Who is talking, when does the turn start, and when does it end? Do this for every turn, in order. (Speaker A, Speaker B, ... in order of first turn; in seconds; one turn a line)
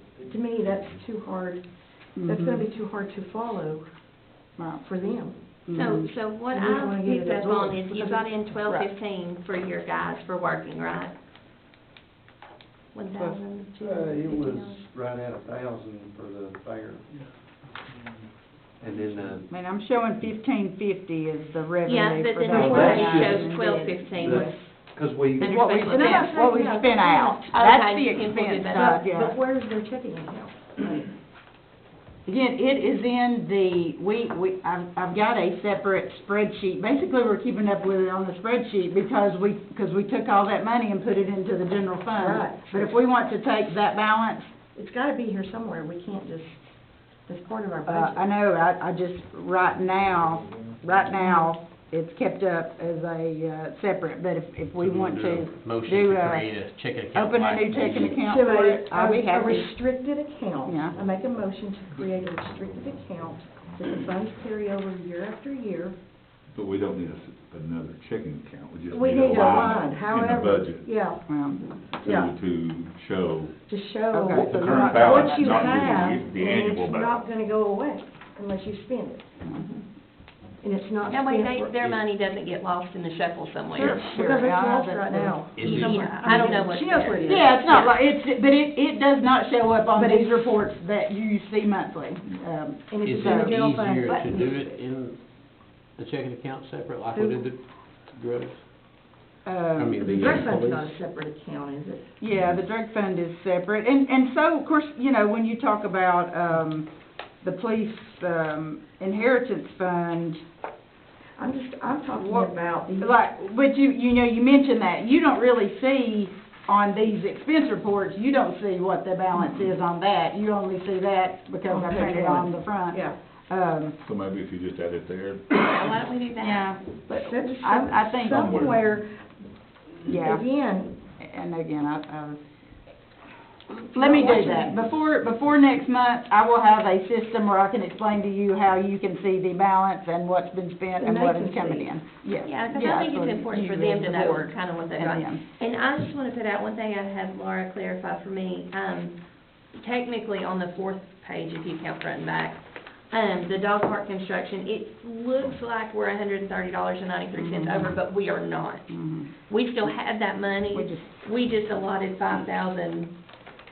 Speaker A: 0.2-1.6
Speaker B: 2.1-2.7
Speaker A: 2.2-3.9
Speaker B: 4.6-4.8
Speaker A: 4.8-5.9
Speaker B: 5.7-6.1
Speaker C: 5.7-11.1
Speaker A: 6.5-8.3
Speaker C: 12.9-14.8
Speaker D: 13.8-17.1
Speaker D: 18.8-19.4
Speaker B: 19.5-24.6
Speaker C: 21.8-24.7
Speaker D: 22.5-23.5
Speaker A: 22.5-23.4
Speaker D: 24.1-25.6
Speaker B: 25.3-29.3
Speaker C: 25.4-26.3
Speaker A: 25.8-27.5
Speaker C: 27.5-29.0
Speaker A: 28.7-31.1
Speaker B: 32.2-44.5
Speaker A: 42.1-42.9
Speaker A: 44.7-46.7
Speaker A: 47.3-48.2
Speaker B: 47.9-59.7
Speaker A: 51.2-51.5
Speaker E: 54.8-58.2
Speaker A: 58.1-66.0
Speaker B: 60.6-61.0
Speaker F: 66.5-70.9
Speaker A: 68.9-71.2
Speaker B: 71.3-71.6
Speaker F: 72.0-73.6
Speaker A: 72.0-72.3
Speaker A: 73.7-79.2
Speaker B: 74.1-76.1
Speaker F: 74.3-77.2
Speaker C: 79.5-79.8
Speaker A: 80.6-82.0
Speaker C: 81.1-84.0
Speaker B: 83.7-86.6
Speaker A: 83.7-87.6
Speaker E: 85.6-86.0
Speaker C: 85.6-87.9
Speaker B: 87.2-93.6
Speaker A: 89.9-90.6
Speaker A: 92.9-94.8
Speaker E: 93.0-98.7
Speaker A: 97.1-97.4
Speaker B: 99.4-100.5
Speaker E: 99.8-101.0
Speaker A: 100.0-102.1
Speaker B: 102.2-106.9
Speaker B: 107.4-110.4
Speaker A: 111.4-113.1
Speaker B: 112.1-124.0
Speaker A: 119.4-119.7
Speaker A: 121.6-123.2
Speaker F: 124.0-125.7
Speaker C: 125.5-126.8
Speaker B: 126.4-128.6
Speaker A: 127.1-129.2
Speaker F: 128.2-128.8
Speaker B: 130.1-130.4
Speaker A: 130.1-130.9
Speaker B: 131.2-132.4
Speaker A: 133.9-134.8
Speaker B: 133.9-145.4
Speaker A: 141.0-141.9
Speaker C: 142.4-149.2
Speaker C: 149.7-158.9
Speaker B: 157.3-157.9
Speaker B: 158.9-159.3
Speaker C: 159.5-163.1
Speaker B: 160.7-161.1